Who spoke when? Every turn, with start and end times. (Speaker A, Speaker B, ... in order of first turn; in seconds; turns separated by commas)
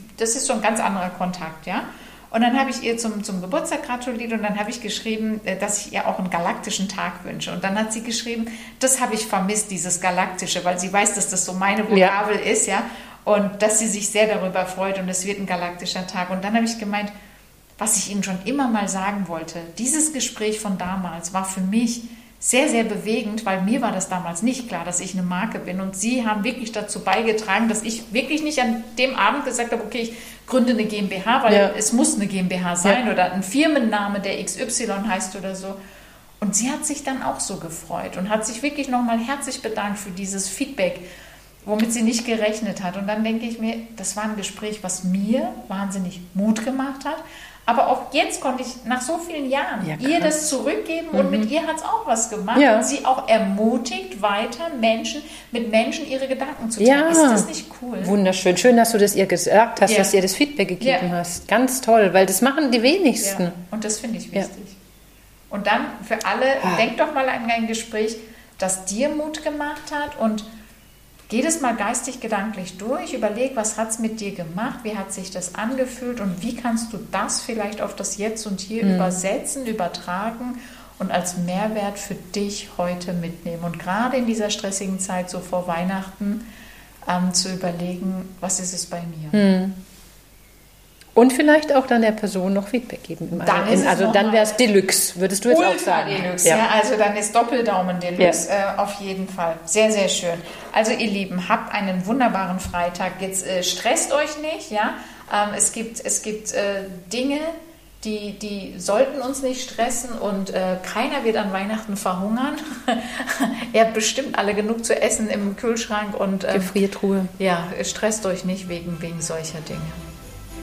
Speaker A: 0.2-17.1, Speaker B: 11.9-12.1, Speaker A: 17.8-35.8, Speaker A: 36.4-41.0, Speaker A: 41.6-58.1, Speaker B: 49.8-50.4, Speaker B: 51.1-51.5, Speaker B: 52.5-52.9, Speaker B: 56.8-57.5, Speaker B: 58.0-63.6, Speaker A: 59.8-60.1, Speaker A: 60.8-61.1, Speaker A: 63.2-64.8, Speaker A: 65.5-70.5, Speaker A: 71.3-86.4, Speaker B: 78.8-79.1, Speaker A: 87.0-89.4, Speaker B: 89.3-89.7, Speaker B: 91.2-96.6, Speaker A: 93.3-94.6, Speaker A: 95.5-116.8, Speaker B: 116.5-117.3, Speaker A: 117.3-120.0